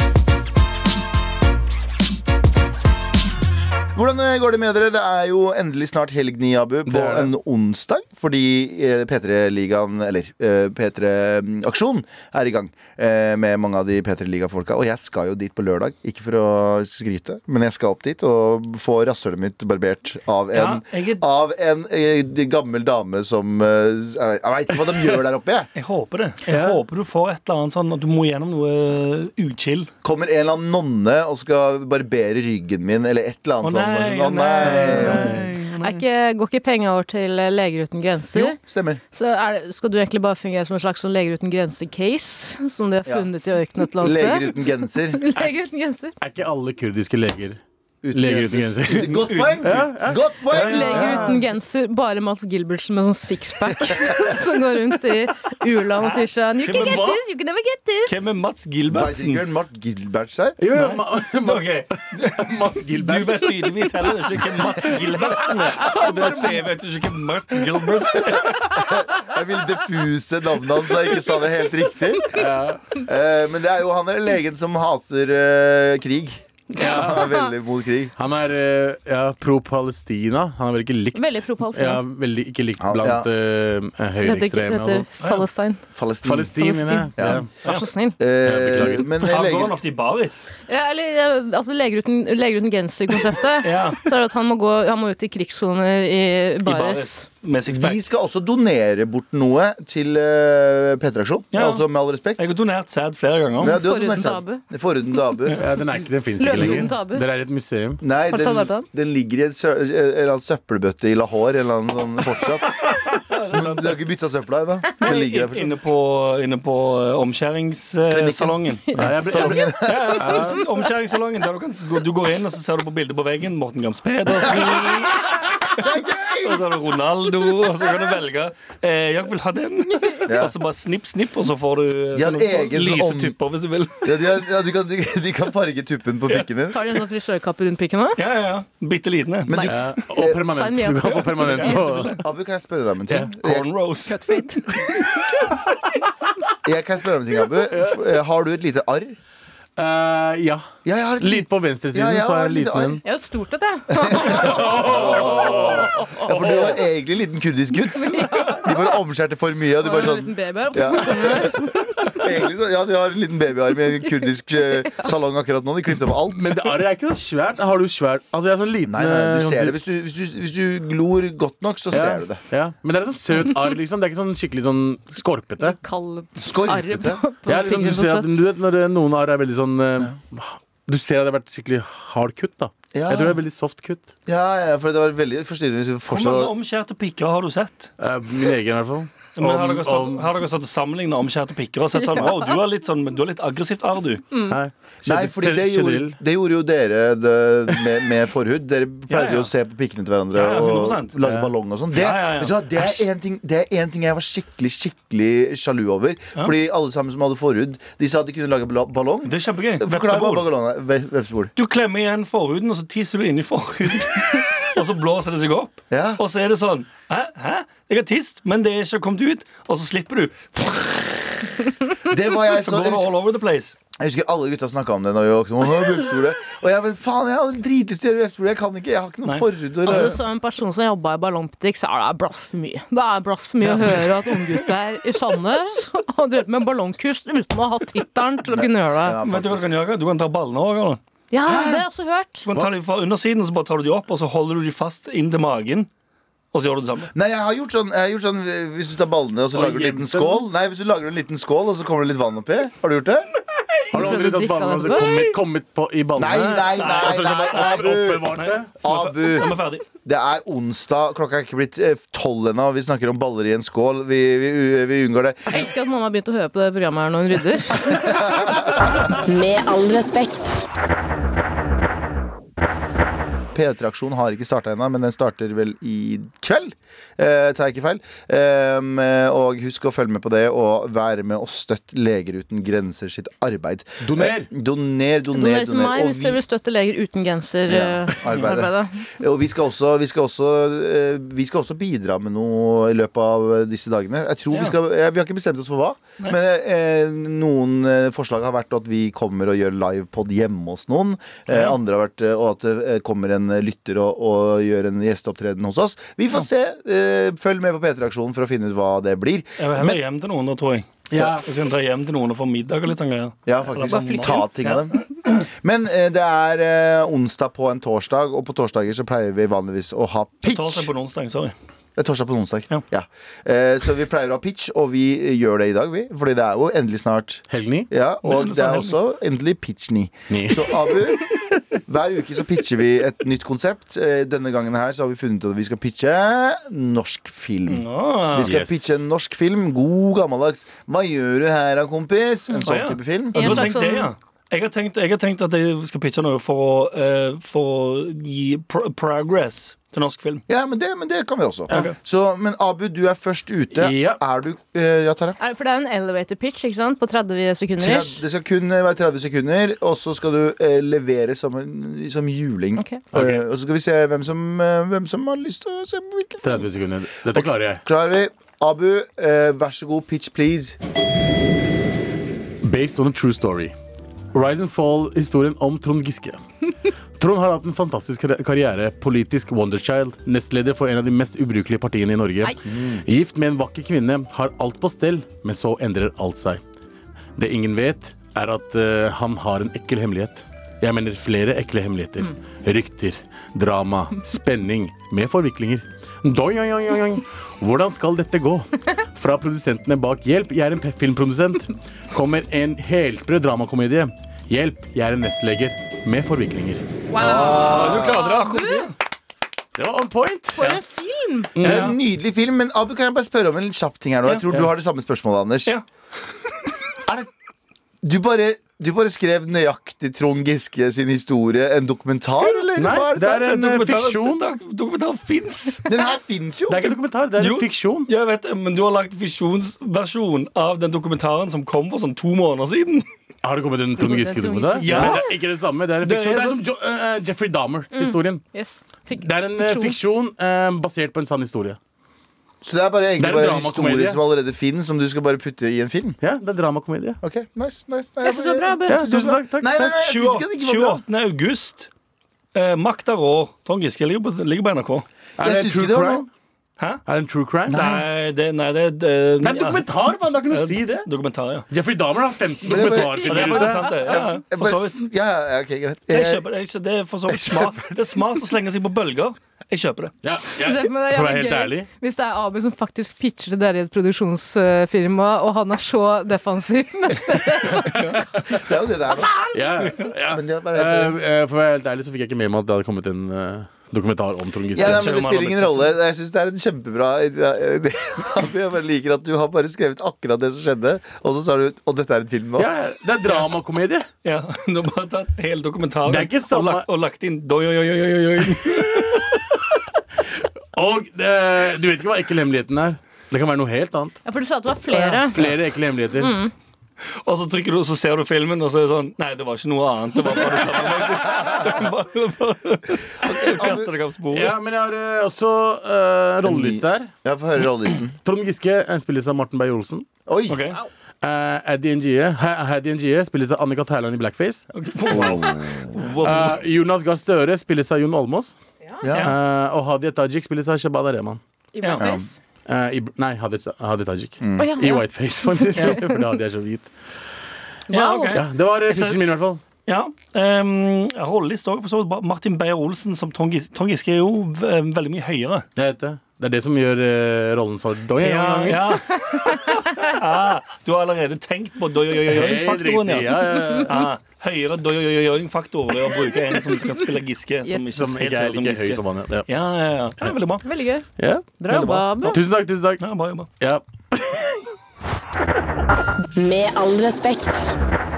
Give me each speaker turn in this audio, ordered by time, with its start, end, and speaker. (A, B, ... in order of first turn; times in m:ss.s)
0:04.0-0:25.7 A
0:06.9-0:07.3 B
0:20.5-0:21.2 C
0:25.8-0:29.9 C
0:26.5-0:26.8 B
0:30.0-0:35.4 A
0:33.6-0:36.0 C
0:34.6-0:35.5 B
0:35.8-0:38.6 D
0:38.3-0:39.0 A
0:39.1-0:44.6 D
0:44.0-0:45.2 A
0:45.1-0:46.1 D
0:46.2-0:47.6 B
0:48.0-0:51.1 A
0:48.1-0:51.5 B
0:48.9-0:49.6 C
0:50.5-0:58.2 D
0:53.7-0:54.1 A
0:56.0-0:57.1 C
0:56.7-0:57.2 B
0:58.1-0:59.4 C
0:58.9-1:00.6 A
1:00.6-1:03.6 B
1:00.8-1:08.7 C
1:05.9-1:06.6 B
1:08.8-1:12.4 A
1:12.3-1:13.0 B
1:13.0-1:18.1 A
1:16.8-1:17.3 B
1:18.2-1:25.1 B
1:21.1-1:22.0 D
1:22.8-1:23.3 A
1:24.2-1:25.8 D
1:25.9-1:26.5 A
1:26.2-1:27.5 B
1:26.6-1:28.2 D
1:27.2-1:27.4 A
1:28.2-1:29.8 A
1:28.4-1:29.1 B
1:29.2-1:30.5 C
1:30.7-1:37.3 D
1:33.6-1:34.1 C
1:36.6-1:38.0 C
1:37.7-1:42.5 A
1:41.5-1:41.8 C
1:42.4-1:43.8 C
1:43.6-1:45.6 A
1:43.6-1:44.6 D
1:45.6-1:48.0 B
1:46.4-1:47.2 D
1:46.5-1:46.8 A
1:48.0-1:55.8 A
1:48.3-1:48.9 D
1:52.8-1:54.0 C
1:55.0-2:05.9 C
1:58.1-2:00.2 A
1:58.9-2:00.6 B
2:04.5-2:05.0 A
2:05.7-2:06.6 A
2:06.4-2:14.4 C
2:10.3-2:10.6 A
2:12.1-2:13.4 A
2:14.0-2:16.8 A
2:16.7-2:18.2 D
2:18.2-2:19.6 C
2:19.5-2:20.3 A
2:19.5-2:21.8 D
2:19.7-2:22.2 B
2:21.0-2:22.2 C
2:22.2-2:23.6 A
2:23.1-2:23.3 B
2:23.4-2:24.4 C
2:24.1-2:24.6 D
2:26.6-2:29.2 A
2:27.7-2:28.0 B
2:29.8-2:30.7 B
2:30.8-2:33.0 A
2:31.2-2:33.0 B
2:33.0-2:36.3 D
2:34.0-2:46.8 A
2:34.3-2:35.9 B
2:37.9-2:38.9 D
2:39.8-2:41.7 D
2:46.3-2:49.8 B
2:48.8-2:52.4 A
2:51.9-2:55.8 B
2:55.6-2:58.3 D
2:56.4-2:57.2 A
2:57.4-3:04.1 B
3:02.9-3:03.4 A
3:04.3-3:06.5 A
3:06.1-3:07.9 C
3:08.0-3:10.3 B
3:09.4-3:14.3 C
3:14.3-3:14.6 D
3:14.5-3:16.2 B
3:15.0-3:31.5 A
3:19.1-3:19.5 C
3:20.4-3:21.2 C
3:21.2-3:21.5 B
3:21.9-3:23.0 C
3:29.2-3:30.5 C
3:31.6-3:41.4 C
3:35.9-3:36.2 A
3:42.1-3:43.1 A
3:42.1-3:43.8 C
3:44.0-3:50.2 A
3:49.2-3:50.1 C
3:49.8-3:59.2 D
3:53.6-3:54.2 C
3:58.5-3:59.7 A
3:59.2-4:01.0 C
4:01.3-4:02.5 D
4:02.5-4:05.9 C
4:06.5-4:07.1 C
4:07.2-4:13.3 A
4:09.5-4:10.4 B
4:13.9-4:18.7 B
4:13.9-4:15.2 D
4:16.2-4:25.6 A
4:16.7-4:17.8 C
4:18.3-4:19.8 C
4:25.5-4:28.1 D
4:27.9-4:28.8 A
4:29.2-4:30.6 E
4:33.5-4:46.4 A
4:44.0-4:44.5 B
4:45.3-4:49.0 D
4:47.7-5:10.0 A
5:01.5-5:01.8 C
5:09.6-5:15.4 C
5:11.1-5:11.4 B
5:13.5-5:20.9 A
5:13.9-5:14.5 D
5:20.5-5:21.5 C
5:22.0-5:43.7 A
5:27.5-5:27.9 B
5:28.2-5:29.0 C
5:30.3-5:30.7 B
5:37.7-5:38.6 C
5:38.4-5:39.0 B
5:42.6-5:50.4 C
5:43.3-5:44.1 D
5:50.5-5:55.4 A
5:53.7-5:54.2 B
5:55.4-5:58.2 D
5:57.8-6:06.7 A
6:06.4-6:07.8 B
6:07.3-6:10.8 A
6:12.6-6:13.7 B
6:14.3-6:16.4 B
6:17.2-6:26.6 B
6:22.7-6:23.0 A
6:27.4-6:46.8 B
6:47.1-6:48.9 D
6:47.2-6:48.2 A
6:47.2-6:48.9 C
6:49.8-6:50.6 B
6:50.6-6:51.5 D
6:51.6-6:52.0 B
6:51.6-6:52.0 C
6:51.6-6:55.8 A
6:57.1-6:57.3 A
6:58.0-7:03.5 A
7:02.8-7:04.5 B
7:03.3-7:05.9 C
7:05.9-7:07.0 A
7:06.7-7:08.1 B
7:07.4-7:13.1 C
7:13.4-7:18.4 B
7:14.0-7:15.2 D
7:14.8-7:15.3 C
7:16.0-7:16.6 C
7:18.0-7:20.0 D
7:19.2-7:21.8 B
7:22.6-7:26.2 A
7:23.2-7:24.2 B
7:26.2-7:27.2 B
7:27.2-7:31.0 A
7:28.2-7:29.2 D
7:28.9-7:30.0 B
7:30.0-7:31.9 C
7:32.5-7:35.1 C
7:35.4-7:36.3 B
7:35.4-7:36.3 A
7:37.1-7:37.8 B
7:37.7-7:38.1 A
7:37.7-7:39.9 C
7:39.4-7:41.1 B
7:40.5-7:41.7 C
7:41.7-7:43.9 B
7:42.7-7:46.4 A
7:43.1-7:45.1 C
7:46.1-7:50.1 C
7:47.3-7:47.8 A
7:50.2-7:51.9 B
7:50.6-7:58.2 D
7:57.9-7:58.4 C
7:58.6-7:59.3 A
7:59.5-8:05.2 B
8:00.3-8:01.2 A
8:04.7-8:12.7 A
8:04.8-8:05.9 C
8:12.6-8:14.1 B
8:14.2-8:19.4 C
8:16.1-8:16.9 B
8:18.6-8:19.2 B
8:20.8-8:24.2 B
8:24.2-8:25.6 D
8:24.9-8:26.4 B
8:26.2-8:26.5 D
8:27.1-8:34.6 C
8:33.2-8:33.9 A
8:34.3-8:37.1 B
8:36.4-8:38.2 A
8:38.2-8:40.1 B
8:40.3-8:40.6 A
8:40.5-8:40.8 C
8:41.2-8:45.5 B
8:44.7-8:46.6 C
8:45.1-8:45.7 A
8:46.2-8:48.6 B
8:49.0-8:49.3 A
8:49.2-8:51.4 B
8:51.7-8:52.3 D
8:52.0-8:52.3 A
8:52.7-8:56.9 B
8:54.4-8:54.7 A
8:54.6-8:56.1 D
8:57.9-8:58.4 D
8:57.9-8:59.2 C
8:58.3-8:59.6 B
8:59.9-9:05.7 C
9:05.8-9:09.0 B
9:08.2-9:20.6 C
9:12.3-9:14.1 B
9:13.6-9:13.8 D
9:17.9-9:19.5 B
9:20.6-9:21.1 D
9:21.2-9:21.6 B
9:21.6-9:22.4 D
9:21.7-9:22.4 C
9:22.2-9:23.0 B
9:23.0-9:23.5 C
9:23.6-9:24.6 B
9:26.4-9:27.7 E